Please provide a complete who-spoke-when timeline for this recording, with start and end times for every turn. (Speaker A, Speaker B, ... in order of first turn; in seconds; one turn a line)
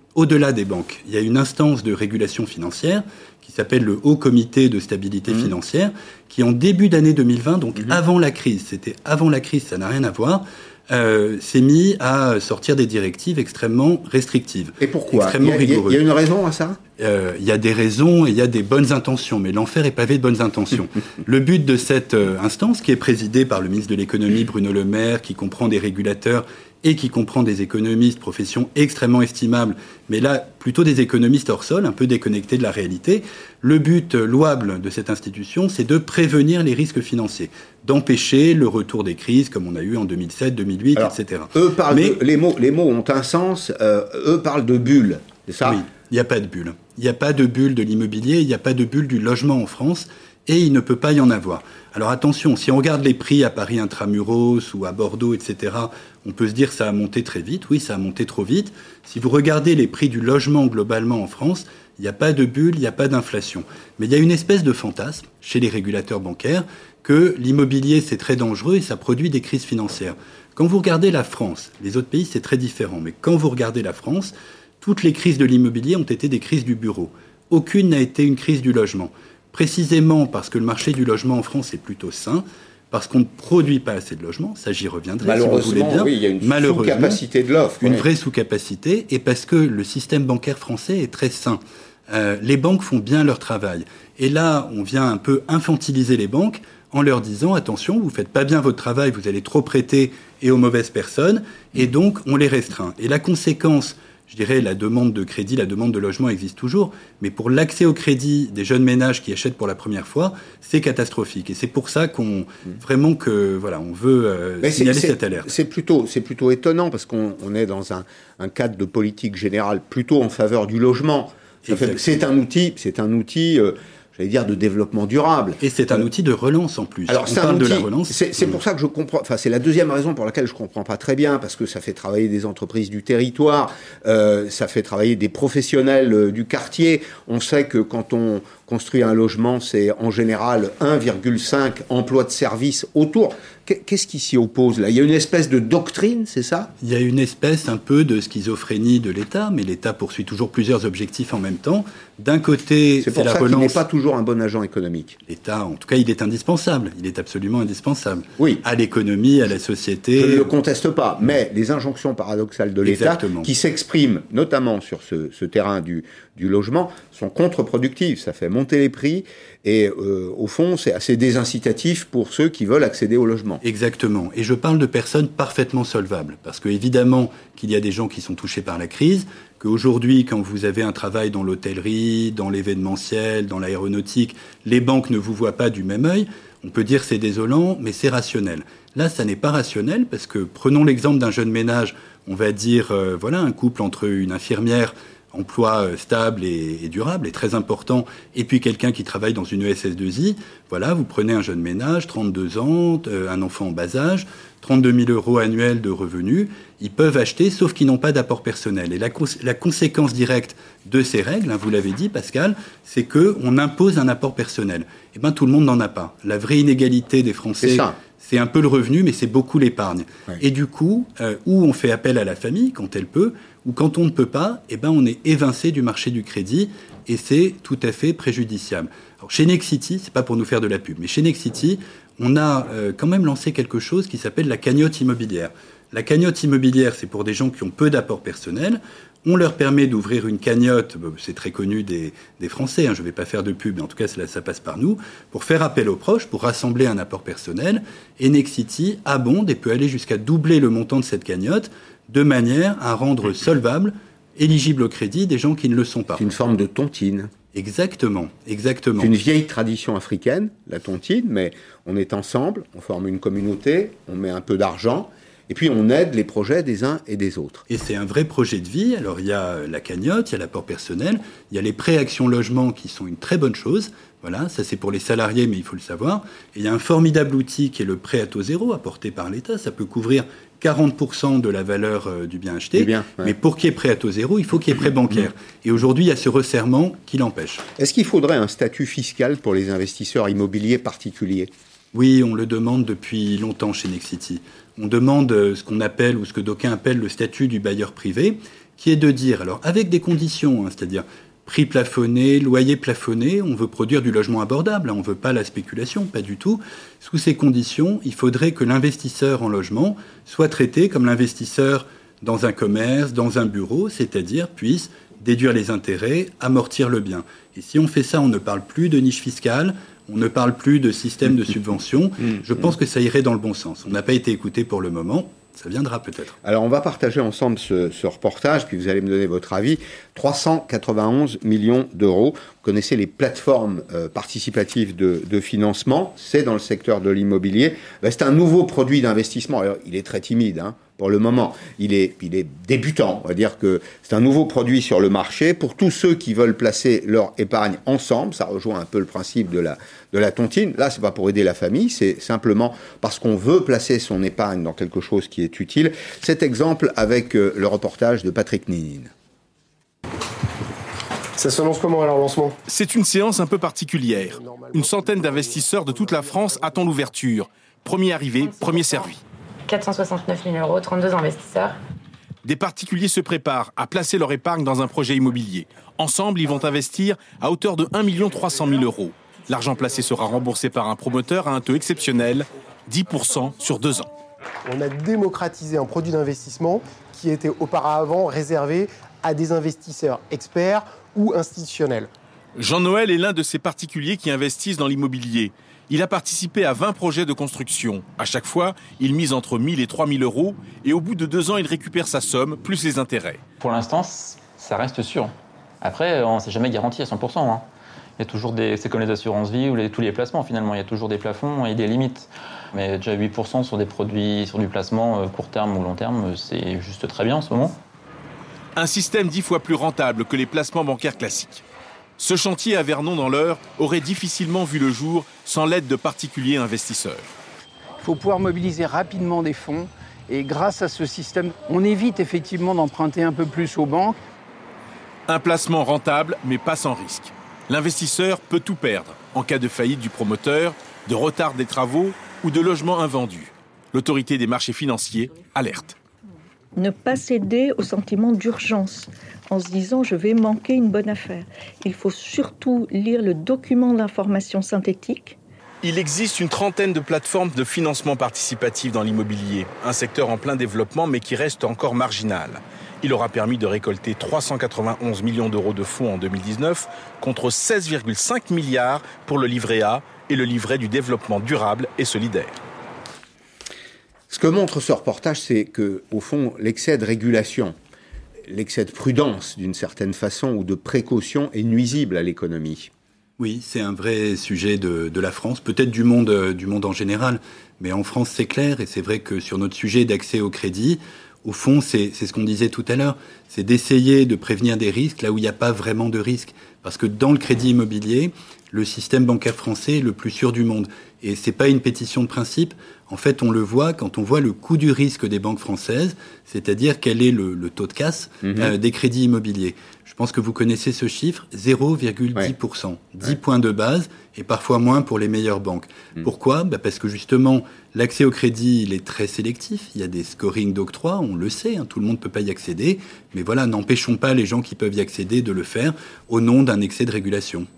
Speaker A: 0.2-16.0
Speaker B: 14.8-16.8
Speaker A: 17.0-42.2
Speaker B: 41.0-45.8
Speaker A: 45.6-87.2
Speaker B: 85.2-88.1
Speaker A: 87.8-115.5
Speaker B: 114.6-126.0
Speaker A: 121.7-122.1
Speaker A: 125.6-128.5
Speaker B: 127.1-146.7
Speaker A: 146.8-153.8
Speaker B: 153.0-155.2
Speaker A: 155.3-160.5
Speaker B: 160.2-173.6
Speaker A: 162.8-163.5
Speaker A: 173.6-256.3
Speaker B: 217.6-218.0
Speaker B: 256.1-257.3
Speaker A: 257.5-259.1
Speaker B: 259.0-267.6
Speaker A: 267.7-287.7
Speaker B: 282.8-283.4
Speaker B: 287.8-291.5
Speaker A: 291.9-326.4
Speaker B: 326.4-359.1
Speaker C: 361.4-362.6
Speaker D: 362.7-369.2
Speaker C: 364.1-367.1
Speaker E: 369.7-371.8
Speaker D: 372.4-384.1
Speaker C: 384.6-392.1
Speaker D: 392.6-403.4
Speaker F: 403.6-407.7
Speaker F: 408.2-417.8
Speaker D: 418.8-421.6
Speaker D: 422.2-427.3
Speaker G: 428.0-434.2
Speaker D: 435.3-445.9
Speaker H: 446.8-455.4
Speaker D: 455.8-472.6
Speaker B: 474.3-477.8
Speaker B: 478.5-482.9
Speaker A: 483.4-527.7
Speaker B: 508.4-508.7